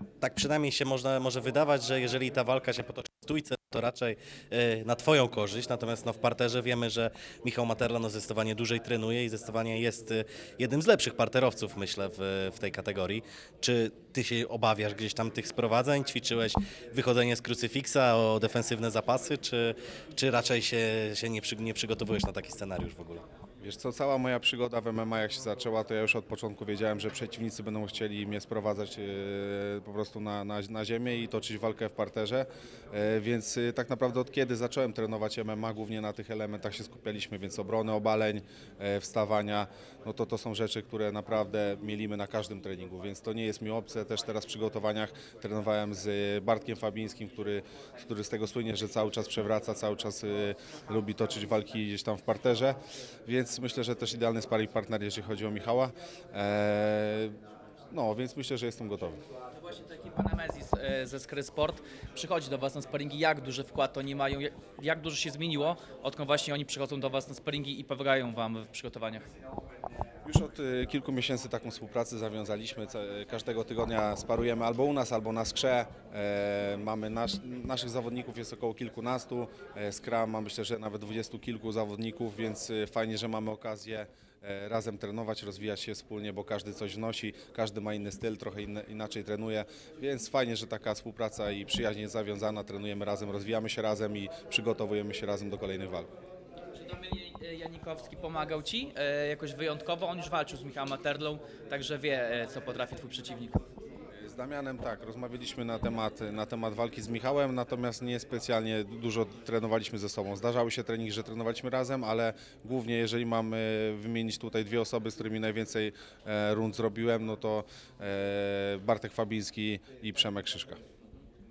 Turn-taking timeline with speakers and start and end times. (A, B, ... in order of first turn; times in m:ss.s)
0:00.2-0:23.2 A
0:23.6-0:57.4 B
0:57.9-0:59.2 B
0:59.5-1:09.3 C
1:10.2-1:36.1 B
1:36.7-1:43.6 C
1:44.2-2:00.8 B